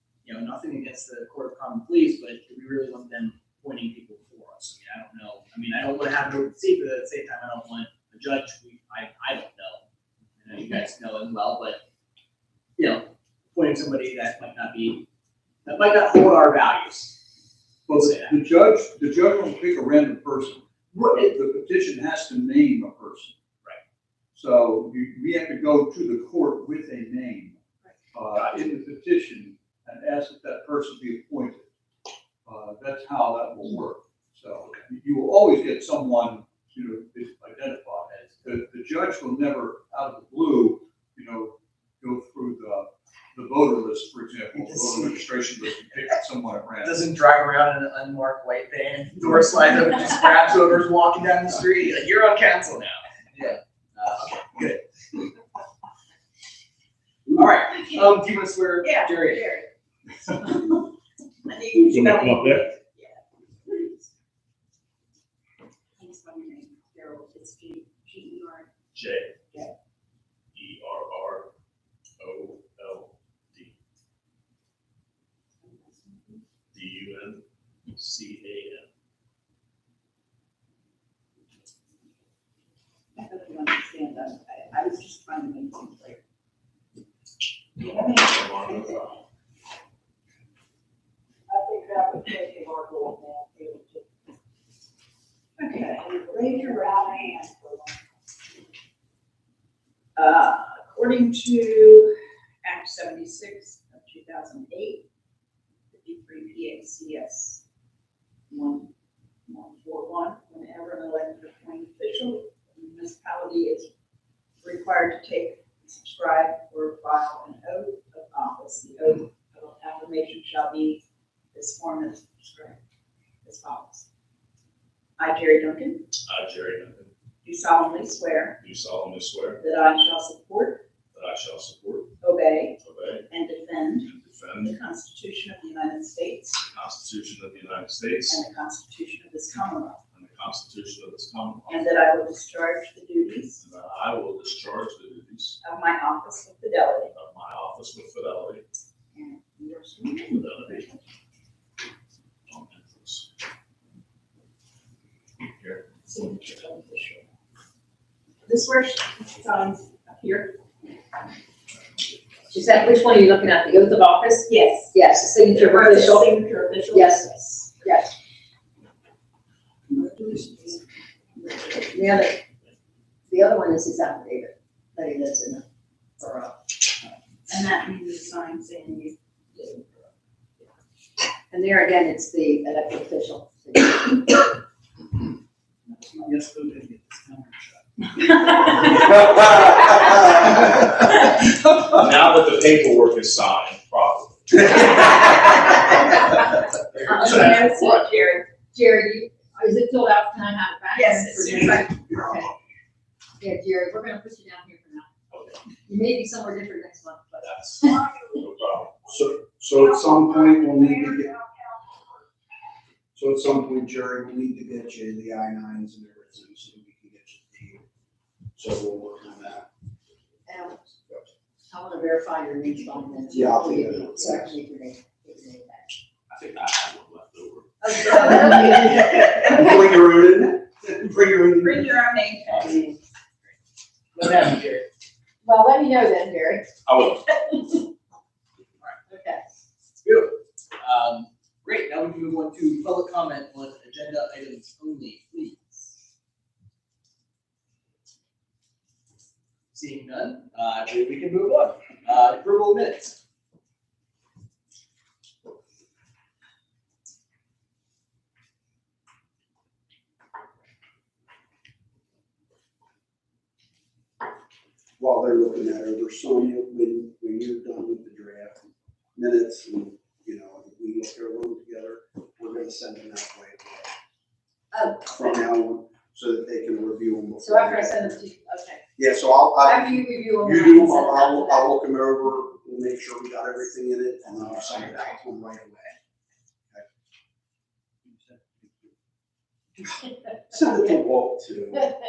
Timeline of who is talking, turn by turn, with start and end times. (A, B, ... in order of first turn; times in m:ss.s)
0:00.2-0:09.8 A
0:10.4-0:11.8 A
0:12.8-0:15.0 A
0:15.6-0:17.2 A
0:17.9-0:23.3 B
0:17.9-0:18.3 A
0:24.4-0:27.5 B
0:28.1-0:31.7 B
0:32.4-0:47.0 B
0:46.8-0:54.8 A
0:57.3-0:59.5 A
0:58.8-0:59.7 C
1:01.4-1:04.1 C
1:01.9-1:02.6 D
1:06.0-1:08.7 C
1:08.9-1:09.4 D
1:10.5-1:11.5 D
1:12.2-1:13.7 D
1:15.6-1:16.4 C
1:16.7-1:18.8 D
1:23.2-1:26.2 C
1:27.8-1:29.0 C
1:27.8-1:29.1 D
1:31.5-1:34.0 C
1:35.6-1:37.8 C
1:40.2-1:42.1 C
1:42.6-1:45.0 C
1:45.9-1:47.6 C
1:48.5-1:48.9 C
1:49.5-1:53.9 C
1:54.6-2:01.0 C
2:01.5-2:02.8 C
2:03.4-2:04.0 C
2:05.2-2:06.0 C
2:06.2-2:07.1 D
2:07.4-2:08.6 C
2:08.6-2:09.6 D
2:09.6-2:10.8 C
2:11.1-2:12.1 D
2:12.2-2:16.6 C
2:12.8-2:13.2 D
2:14.0-2:14.8 D
2:16.6-2:18.4 D
2:18.2-2:20.0 C
2:20.1-2:21.8 D
2:21.6-2:23.6 C
2:23.6-2:25.6 D
2:25.6-2:27.1 C
2:27.1-2:28.6 D
2:29.1-2:31.0 C
2:30.3-2:30.9 D
2:32.5-2:33.2 D
2:35.4-2:35.8 D
2:36.0-2:37.3 C
2:38.4-2:40.6 C
2:42.5-2:42.8 D
2:42.5-2:46.3 E
2:44.5-2:47.8 C
2:46.9-2:48.1 E
2:49.9-2:50.8 C
2:51.7-2:52.4 E
2:53.3-2:55.6 E
2:56.2-2:56.6 E
2:57.5-2:59.2 C
3:01.5-3:04.4 E
3:05.9-3:08.0 A
3:11.9-3:15.3 D
3:17.0-3:17.4 D
3:17.0-3:18.6 C
3:17.1-3:17.8 E
3:18.6-3:22.5 E
3:20.9-3:22.3 C
3:23.4-3:25.1 E
3:25.3-3:25.6 D
3:25.9-3:28.0 E
3:27.4-3:28.9 D
3:29.0-3:31.4 F
3:33.1-3:37.8 F
3:38.6-3:39.7 F
3:40.5-3:40.8 E
3:41.7-3:45.9 E
3:43.3-3:44.6 F
3:46.3-3:48.6 D
3:47.9-3:49.0 E
3:48.8-3:51.9 F
3:51.5-3:52.7 C
3:52.5-3:53.0 A
3:54.1-3:54.8 A
3:55.4-3:56.6 E
3:56.8-3:57.4 D
3:59.1-3:59.4 E
4:00.0-4:05.8 A
4:09.7-4:13.2 A
4:25.0-4:33.9 F
4:34.7-4:35.3 E
4:35.0-4:38.2 F
4:37.4-4:38.8 E
4:39.0-4:46.0 F
4:39.6-4:41.7 E
4:48.0-4:48.9 B
4:50.5-4:51.9 F